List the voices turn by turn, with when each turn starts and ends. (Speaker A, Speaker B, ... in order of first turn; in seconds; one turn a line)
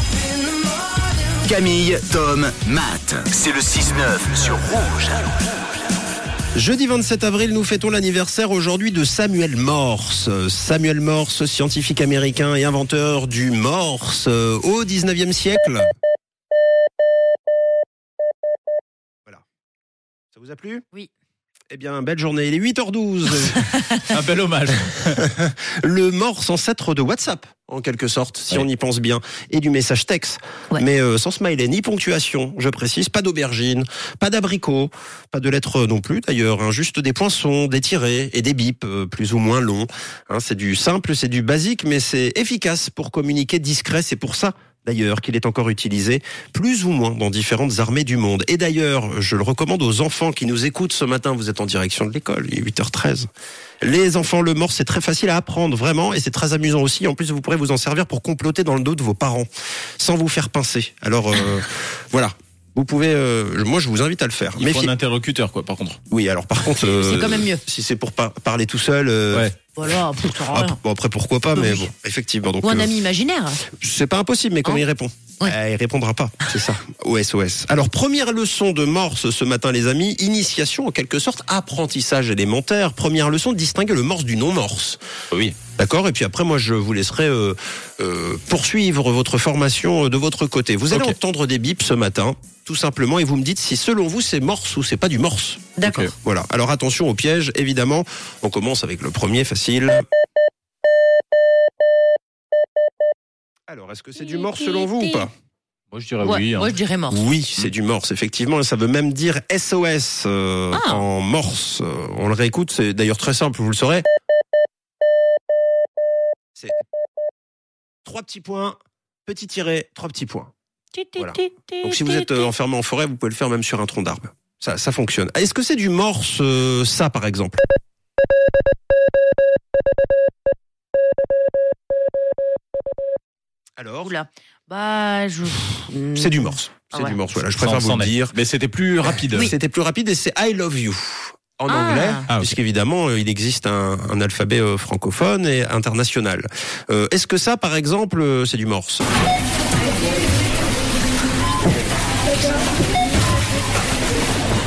Speaker A: 1.4-5.4
Speaker B: 6.5-15.9
Speaker B: 20.3-20.9
Speaker B: 21.7-23.9
Speaker C: 24.1-25.2
Speaker B: 25.1-53.3
Speaker B: 53.8-64.9
Speaker C: 64.6-66.0
Speaker B: 66.1-69.5
Speaker D: 66.7-67.6
Speaker D: 69.8-70.8
Speaker B: 70.2-73.0
Speaker D: 71.5-71.9
Speaker D: 72.6-73.6
Speaker B: 73.8-85.0
Speaker B: 85.8-100.0
Speaker C: 90.9-91.2
Speaker D: 95.8-96.1
Speaker C: 95.8-96.1
Speaker B: 103.7-105.3
Speaker D: 104.2-105.3
Speaker C: 105.9-106.7
Speaker D: 106.2-107.3
Speaker B: 107.1-114.0
Speaker D: 110.7-111.0
Speaker B: 118.0-120.5
Speaker D: 121.0-122.5
Speaker B: 121.2-127.6
Speaker B: 133.8-134.2
Speaker D: 134.0-137.2
Speaker B: 136.2-138.3
Speaker C: 137.4-139.5
Speaker B: 139.2-149.0
Speaker D: 141.7-142.3
Speaker C: 142.3-142.6